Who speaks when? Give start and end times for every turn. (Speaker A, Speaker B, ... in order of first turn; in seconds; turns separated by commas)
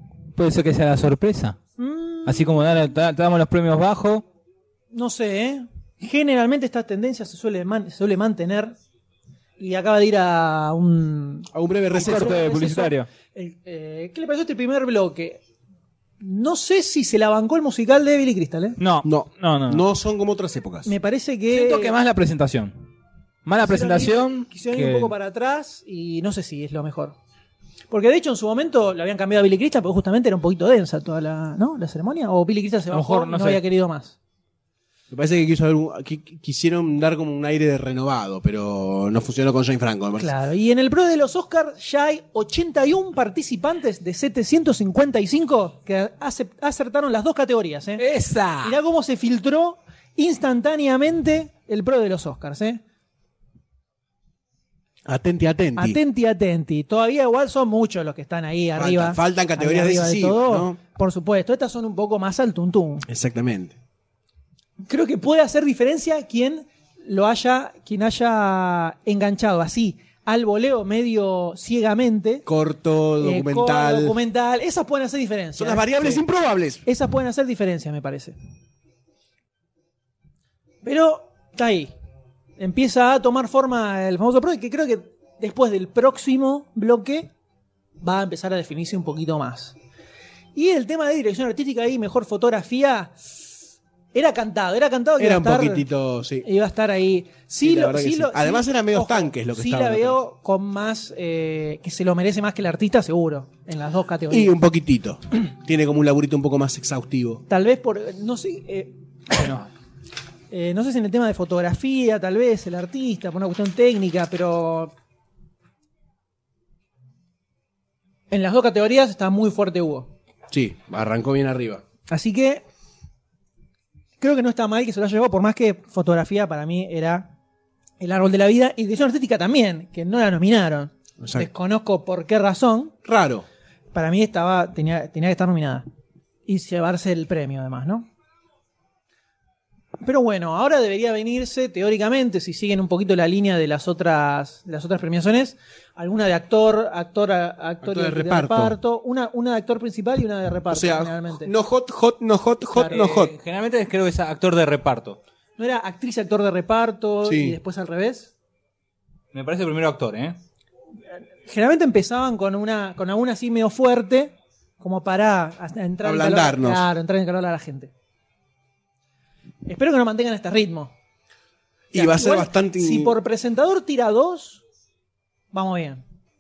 Speaker A: 0.3-1.6, Speaker B: 1.8-2.5, Speaker A: 2.2-4.2, Speaker B: 4.9-8.7, Speaker B: 9.6-15.4, Speaker C: 11.5-12.5, Speaker A: 12.0-13.1, Speaker B: 16.2-18.8, Speaker A: 18.8-19.8, Speaker C: 19.0-20.9, Speaker B: 20.9-21.9, Speaker A: 21.5-22.9, Speaker A: 23.4-25.1, Speaker B: 23.6-27.1, Speaker B: 27.9-34.2, Speaker A: 32.9-33.6, Speaker C: 35.1-40.3, Speaker B: 40.2-48.0, Speaker A: 48.0-48.8, Speaker B: 48.6-52.8, Speaker C: 55.0-56.0, Speaker B: 55.8-63.0, Speaker C: 58.8-60.8, Speaker C: 63.1-63.8, Speaker B: 64.8-72.5, Speaker C: 72.5-74.2, Speaker B: 73.2-76.2, Speaker C: 75.5-76.8, Speaker B: 76.8-78.3, Speaker B: 80.8-81.9, Speaker B: 82.6-87.3, Speaker B: 88.0-89.8, Speaker B: 90.5-93.4, Speaker B: 94.1-95.9, Speaker C: 95.2-96.5, Speaker B: 96.4-104.5, Speaker C: 97.6-100.2, Speaker C: 104.3-107.4, Speaker B: 107.5-109.5, Speaker A: 109.3-109.7, Speaker B: 110.5-114.9, Speaker B: 118.3-120.1, Speaker C: 120.5-121.8, Speaker B: 122.1-122.6, Speaker B: 124.2-127.3, Speaker B: 128.0-132.9, Speaker C: 131.2-131.5, Speaker C: 133.0-133.4, Speaker B: 133.9-135.8, Speaker B: 136.4-138.1, Speaker B: 140.0-151.5, Speaker C: 147.8-148.8, Speaker C: 150.7-153.3, Speaker B: 152.7-153.0, Speaker A: 152.9-155.2, Speaker B: 155.6-158.3, Speaker C: 157.2-157.6, Speaker A: 159.3-160.4, Speaker B: 161.4-167.9, Speaker C: 166.0-166.9, Speaker B: 169.6-170.9, Speaker C: 171.9-173.2, Speaker B: 171.9-174.6, Speaker B: 175.5-176.0